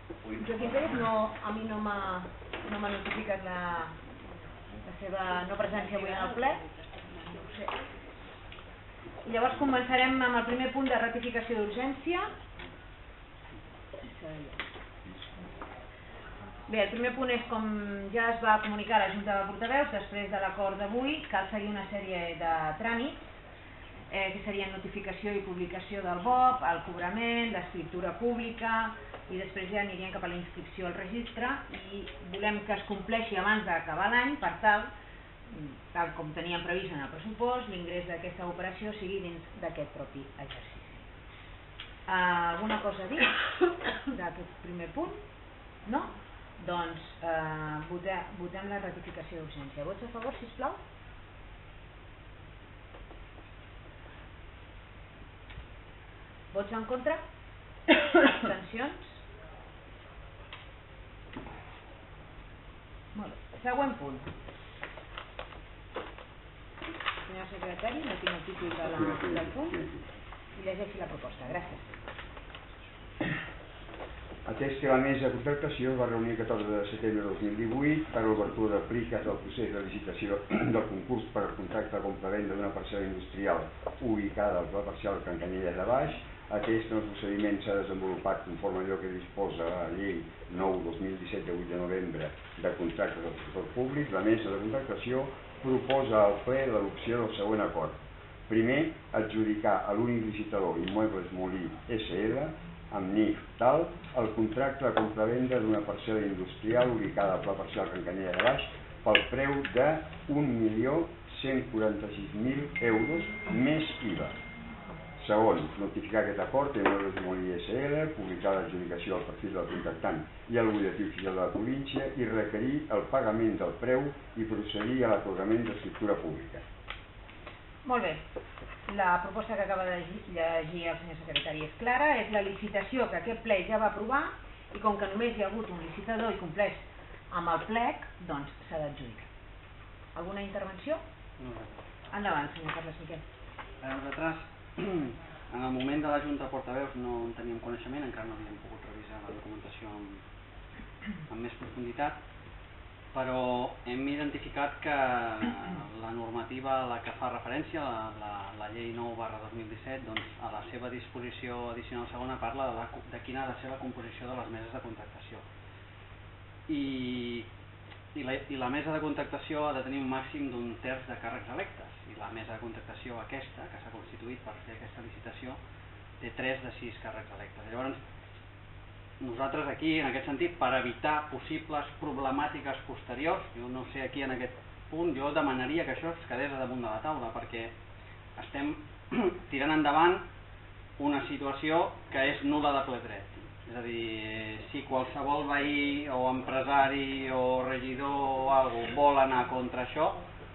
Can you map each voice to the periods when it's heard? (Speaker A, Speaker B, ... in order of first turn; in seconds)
Speaker A: 0.3-4.0, 4.8-6.7, 7.2-7.7, 9.2-12.3, 14.0-14.6, 16.7-23.3, 24.1-34.9, 35.5-41.0, 42.0-43.3, 44.1-45.2, 45.8-50.8, 56.5-57.2, 58.0-59.2, 63.1-64.3, 67.2-69.8, 70.5-71.9, 127.8-128.2, 128.9-139.3, 140.1-141.0, 142.1-143.2
Speaker B: 68.8-70.0, 74.4-114.4, 115.2-126.6
Speaker C: 141.4-141.7, 143.8-150.2, 151.3-152.2, 153.1-165.4, 166.7-167.5, 168.1-175.6, 176.2-178.0, 179.2-187.7, 188.4-190.2, 191.0-200.2